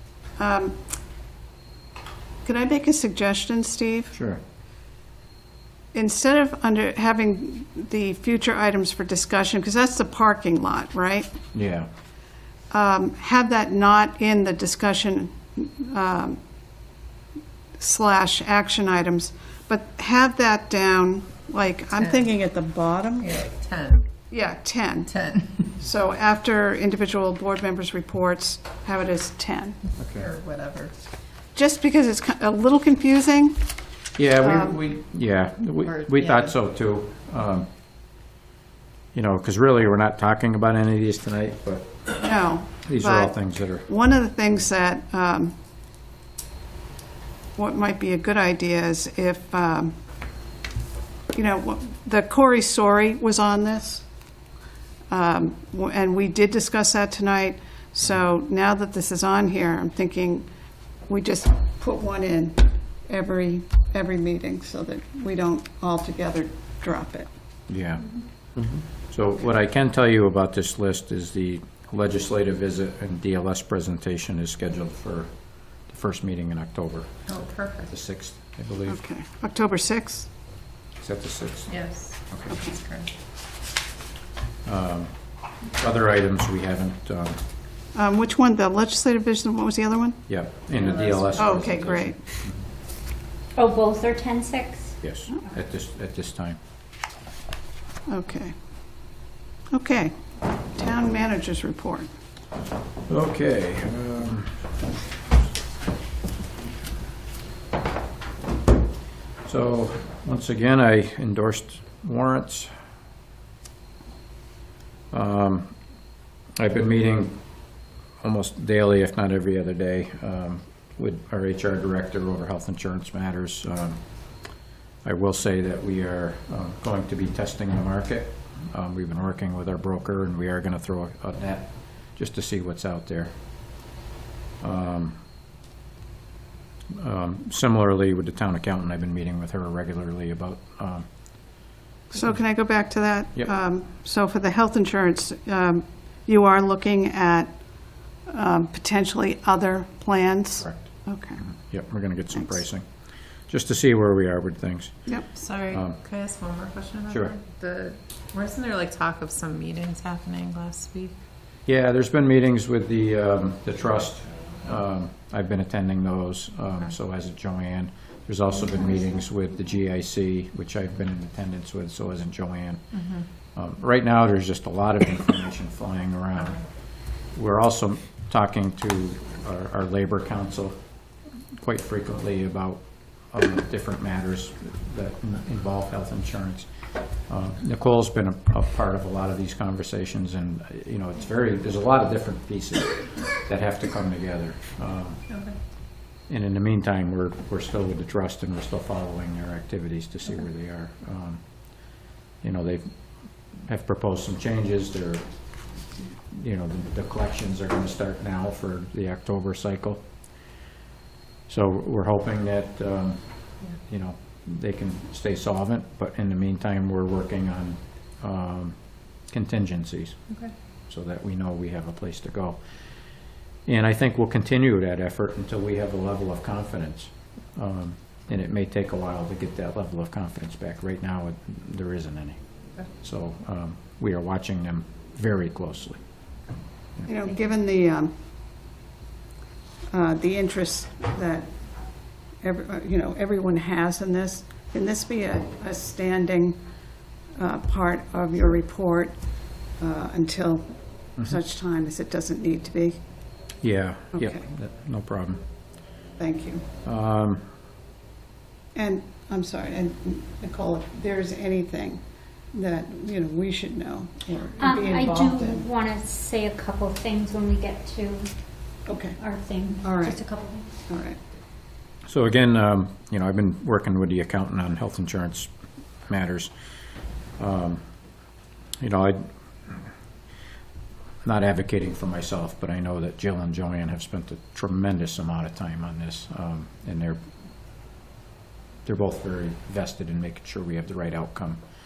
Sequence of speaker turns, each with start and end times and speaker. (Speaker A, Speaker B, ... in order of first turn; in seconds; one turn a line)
Speaker A: 0.4-0.8
Speaker A: 2.4-4.2
Speaker B: 4.1-4.4
Speaker A: 5.9-11.3
Speaker B: 11.5-11.9
Speaker A: 12.7-16.4
Speaker A: 17.8-23.3
Speaker C: 21.9-22.3
Speaker C: 23.2-24.1
Speaker A: 24.3-25.1
Speaker C: 25.1-25.7
Speaker A: 25.8-29.8
Speaker B: 30.0-30.3
Speaker C: 30.1-31.0
Speaker A: 31.6-33.6
Speaker B: 34.2-37.7
Speaker A: 34.4-34.8
Speaker C: 35.9-36.5
Speaker B: 39.1-42.3
Speaker A: 42.2-45.5
Speaker B: 42.9-43.9
Speaker A: 47.6-49.9
Speaker A: 51.3-54.1
Speaker A: 55.1-60.5
Speaker A: 61.1-67.3
Speaker B: 67.7-79.0
Speaker C: 77.3-77.9
Speaker A: 78.9-80.3
Speaker B: 81.0-82.6
Speaker C: 81.7-83.1
Speaker B: 84.7-87.4
Speaker A: 87.9-90.2
Speaker B: 90.3-92.6
Speaker C: 90.8-91.4
Speaker A: 91.4-92.2
Speaker D: 93.6-95.0
Speaker B: 95.0-96.6
Speaker A: 98.1-98.5
Speaker A: 99.7-102.1
Speaker B: 103.1-104.7
Speaker B: 109.5-112.7
Speaker B: 115.1-115.8
Speaker B: 116.6-117.7
Speaker B: 118.2-124.0
Speaker B: 125.0-133.3
Speaker B: 134.6-135.2
Speaker B: 137.0-141.6
Speaker A: 142.1-151.4
Speaker B: 150.6-155.2
Speaker A: 152.3-152.6
Speaker C: 155.3-161.2
Speaker B: 155.7-156.0
Speaker B: 157.1-157.4
Speaker B: 161.7-173.0
Speaker C: 172.9-173.2
Speaker B: 173.6-180.8
Speaker B: 181.6-186.7
Speaker B: 187.3-195.2
Speaker C: 195.3-195.6
Speaker B: 196.3-205.3
Speaker B: 206.3-210.1
Speaker B: 211.5-220.3
Speaker B: 220.9-222.6
Speaker B: 223.7-232.4
Speaker B: 233.0-236.0
Speaker A: 237.1-238.1
Speaker A: 239.9-241.5
Speaker A: 242.4-246.6
Speaker A: 247.4-249.2
Speaker A: 249.8-253.0
Speaker B: 253.6-255.4
Speaker A: 254.1-254.4
Speaker A: 256.2-256.6
Speaker B: 256.9-257.4
Speaker A: 258.8-265.7
Speaker D: 264.6-268.3
Speaker A: 268.9-269.2
Speaker D: 269.1-270.7
Speaker A: 269.8-270.2
Speaker A: 270.9-271.2
Speaker B: 272.1-275.5
Speaker B: 276.1-276.5
Speaker B: 277.4-277.8
Speaker B: 278.8-279.8
Speaker B: 281.2-287.2
Speaker B: 288.9-291.6